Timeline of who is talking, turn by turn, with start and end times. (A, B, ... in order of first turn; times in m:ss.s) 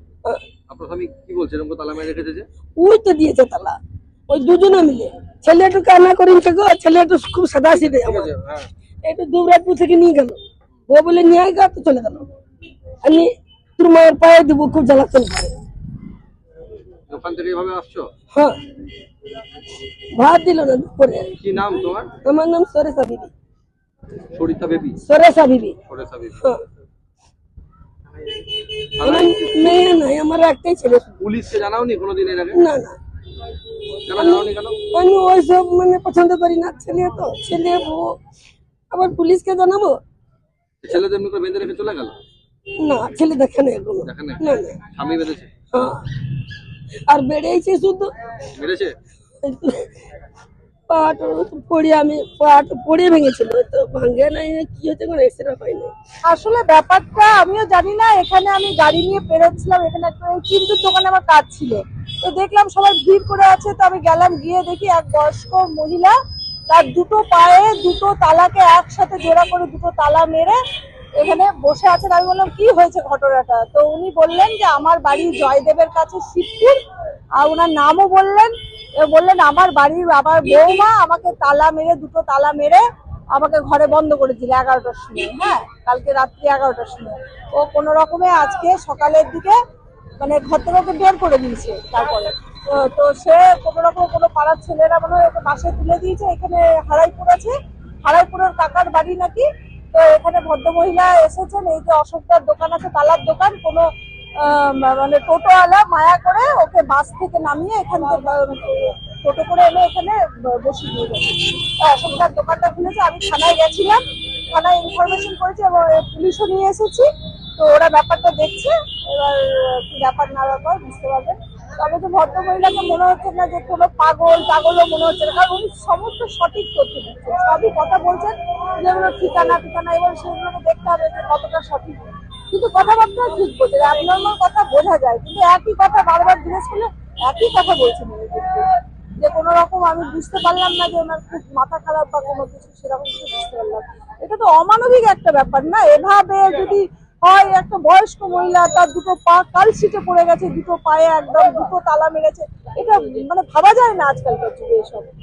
0:00.7-0:02.5 A
0:02.8-0:08.3 B
0:07.7-0:08.7 A
0:09.0-0:12.3 B
0:13.0-0:15.6 B
0:17.1-0:18.1 A
0:18.3-0:18.6 B
0:20.2-0:21.3 B
0:21.4-0:22.1 A
0:22.2-0:23.3 B
0:24.3-0:25.0 A
0:25.0-0:25.8 B
0:25.9-0:26.4 A
0:29.0-0:29.5 A
0:29.0-0:31.1 B
0:31.2-0:32.6 A
0:32.5-0:33.0 B
0:34.0-0:34.8 A
0:34.1-0:38.1 B
0:38.9-0:40.0 B
0:40.8-0:42.2 A
0:42.8-0:44.8 B
0:44.1-0:45.5 A
0:45.7-0:46.1 B
0:47.1-0:48.1 B
0:48.5-0:49.0 A
0:49.4-0:50.0 B
0:50.9-0:55.9 B
0:56.3-1:06.2 C
1:06.7-1:10.6 C
1:11.2-1:16.8 C
1:17.4-1:22.8 C
1:23.4-1:29.6 C
1:30.2-1:37.5 C
1:38.1-1:43.9 C
1:44.4-1:54.0 C
1:54.5-2:35.1 C